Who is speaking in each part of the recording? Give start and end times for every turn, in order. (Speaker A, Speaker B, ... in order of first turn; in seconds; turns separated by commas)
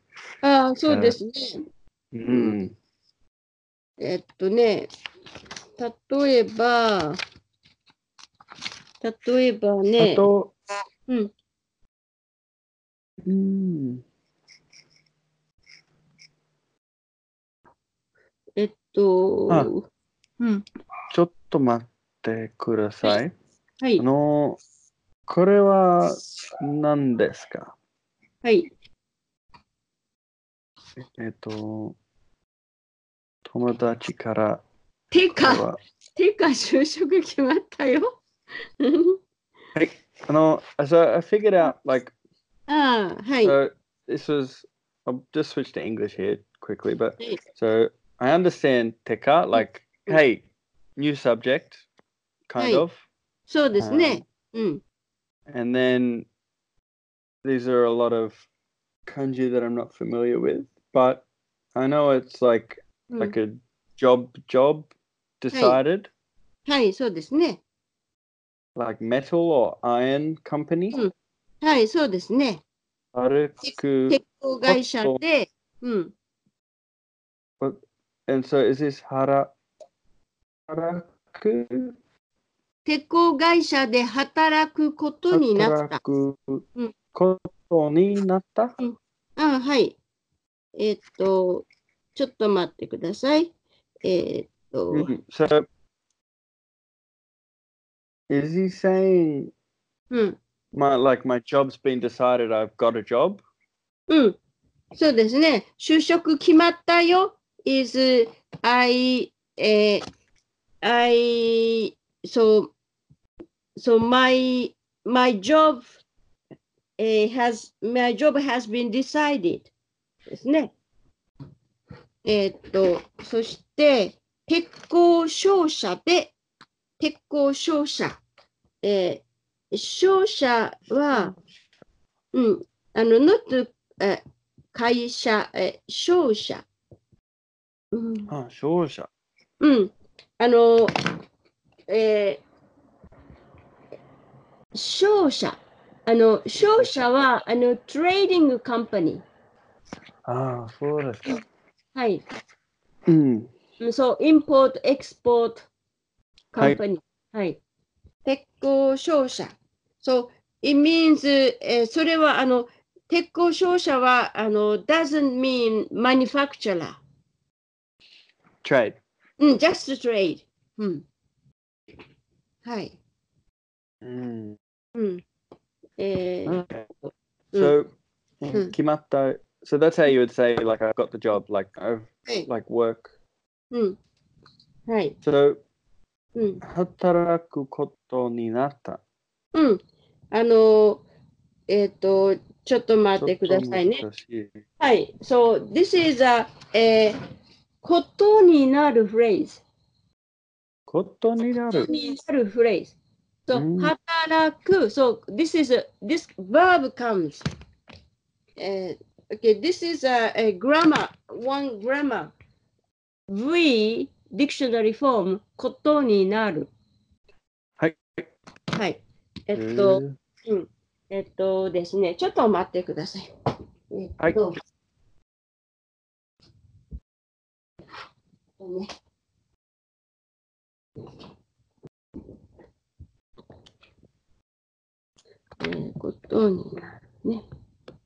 Speaker A: 0.4-1.6, Speaker B: 0.9-1.1, Speaker B: 2.1-2.7, Speaker A: 2.3-2.6, Speaker A: 4.0-4.9, Speaker A: 5.8-7.2, Speaker A: 9.0-10.3, Speaker B: 10.0-10.5, Speaker B: 13.2-14.0, Speaker A: 18.6-19.8, Speaker B: 21.1-23.3, Speaker B: 24.0-24.6, Speaker B: 25.3-27.7, Speaker B: 31.0-32.0, Speaker B: 33.5-34.6, Speaker A: 35.1-35.6, Speaker B: 35.4-35.8, Speaker A: 36.1-38.2, Speaker A: 38.8-39.2, Speaker B: 39.7-42.1, Speaker A: 42.7-43.5, Speaker B: 43.4-50.4, Speaker A: 49.5-50.2, Speaker B: 51.0-51.8, Speaker B: 52.5-53.0, Speaker A: 52.6-52.8, Speaker A: 53.5-54.8, Speaker B: 53.8-54.2, Speaker B: 55.5-56.3, Speaker B: 57.4-58.4, Speaker B: 59.1-66.1, Speaker A: 63.1-63.3, Speaker A: 65.5-65.8, Speaker A: 66.7-67.6, Speaker B: 68.8-71.0, Speaker A: 70.9-72.6, Speaker B: 73.1-75.2, Speaker A: 74.1-76.1, Speaker B: 77.6-79.5, Speaker B: 80.7-82.0, Speaker A: 82.8-86.0, Speaker B: 85.3-88.7, Speaker A: 88.8-90.0, Speaker A: 90.8-95.1, Speaker B: 94.9-95.7, Speaker B: 98.3-99.5, Speaker A: 100.1-100.4, Speaker B: 100.7-103.4, Speaker A: 104.1-104.3, Speaker A: 104.9-110.0, Speaker A: 110.8-112.7, Speaker A: 113.8-116.0, Speaker A: 117.0-119.7, Speaker A: 120.3-120.7, Speaker A: 122.2-126.3, Speaker A: 127.0-128.2, Speaker A: 128.8-131.3, Speaker A: 132.3-134.2, Speaker A: 134.7-136.7, Speaker A: 137.9-138.3, Speaker B: 138.3-139.1, Speaker A: 139.6-140.9, Speaker A: 141.9-142.4, Speaker A: 144.7-149.2, Speaker B: 150.2-151.4, Speaker A: 151.9-152.2, Speaker B: 153.1-153.5, Speaker A: 153.8-155.7, Speaker A: 156.5-157.6, Speaker A: 158.2-167.0, Speaker B: 168.6-169.0, Speaker A: 169.4-171.0, Speaker A: 172.6-173.0, Speaker B: 174.0-174.6, Speaker A: 174.9-175.2, Speaker A: 176.0-176.7, Speaker B: 176.4-176.9, Speaker B: 177.5-177.9, Speaker B: 178.4-183.1, Speaker A: 183.7-184.0, Speaker A: 184.9-185.1, Speaker B: 185.2-185.6, Speaker A: 186.3-186.6, Speaker B: 186.6-189.0, Speaker A: 189.5-189.8, Speaker A: 190.3-191.0, Speaker A: 191.7-194.0, Speaker B: 193.2-194.6, Speaker A: 194.8-197.2, Speaker A: 197.8-199.6, Speaker B: 200.9-201.9, Speaker A: 201.7-202.9, Speaker A: 203.5-207.4, Speaker B: 203.5-203.9, Speaker A: 208.6-212.3, Speaker A: 213.3-216.7, Speaker B: 217.8-218.3, Speaker A: 218.7-223.3, Speaker B: 219.5-220.2, Speaker A: 223.9-224.6, Speaker A: 228.6-228.9, Speaker A: 235.6-237.4